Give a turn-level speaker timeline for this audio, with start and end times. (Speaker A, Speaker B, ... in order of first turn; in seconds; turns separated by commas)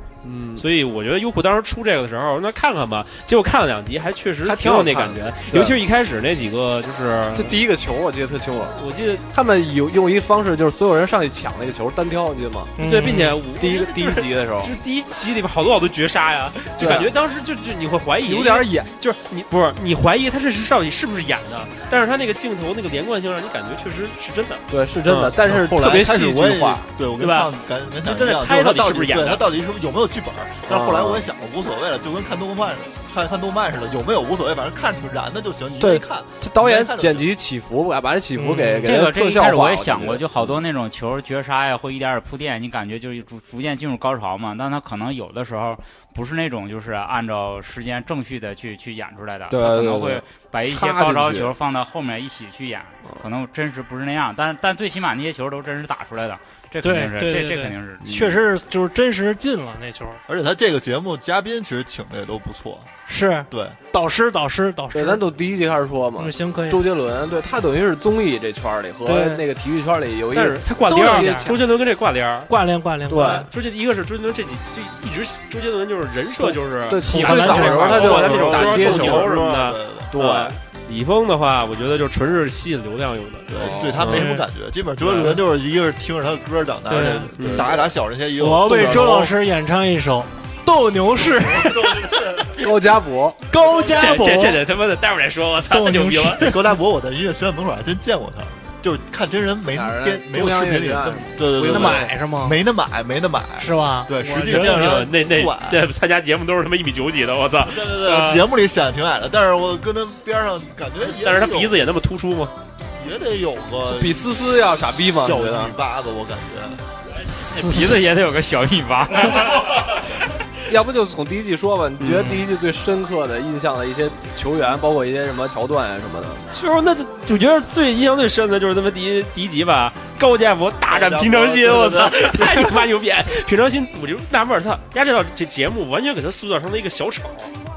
Speaker A: 0.2-0.7, Speaker B: 0.6-7.6, Speaker A: 4.4-5.8, Speaker A: 7.3-12.7, Speaker B: 8.8-9.2, Speaker C: 12.8-13.4, Speaker B: 12.8-25.3, Speaker A: 13.5-14.7, Speaker A: 16.8-17.1, Speaker A: 18.2-18.9, Speaker A: 24.7-26.8, Speaker D: 25.2-37.3, Speaker B: 27.2-27.5, Speaker B: 28.0-29.4, Speaker A: 30.7-31.2, Speaker A: 35.8-40.6, Speaker C: 38.3-39.0, Speaker E: 38.8-58.2, Speaker A: 49.5-51.5, Speaker C: 56.8-60.2, Speaker A: 58.0-58.4, Speaker D: 60.3-62.9, Speaker C: 63.0-65.2, Speaker D: 63.5-63.8, Speaker A: 64.9-71.6, Speaker C: 66.2-66.8, Speaker C: 69.0-69.4, Speaker B: 70.3-72.5, Speaker C: 70.8-71.6, Speaker C: 72.5-73.5, Speaker A: 73.1-73.5, Speaker B: 73.1-84.2, Speaker A: 76.3-79.4, Speaker C: 77.0-78.6, Speaker D: 77.9-80.1, Speaker A: 80.1-80.5, Speaker D: 83.5-89.3, Speaker A: 83.5-84.2, Speaker C: 84.1-84.5, Speaker B: 85.0-85.4, Speaker C: 85.1-85.4, Speaker C: 86.9-87.3, Speaker B: 87.4-87.7, Speaker A: 87.4-87.8, Speaker C: 88.3-92.4, Speaker D: 91.2-92.6, Speaker A: 92.6-93.4, Speaker C: 93.5-94.6, Speaker D: 93.6-93.9, Speaker B: 94.0-96.5, Speaker C: 95.7-96.6, Speaker D: 96.4-105.8, Speaker A: 99.7-102.1, Speaker C: 101.6-102.6, Speaker C: 103.6-105.0, Speaker B: 104.4-108.4, Speaker D: 107.6-111.8, Speaker B: 111.0-112.5, Speaker D: 112.9-114.5, Speaker A: 113.9-115.7, Speaker D: 115.2-116.8, Speaker C: 117.3-118.0, Speaker E: 117.4-120.0, Speaker A: 120.7-126.5, Speaker B: 122.0-122.4, Speaker B: 126.5-137.5, Speaker D: 130.9-132.8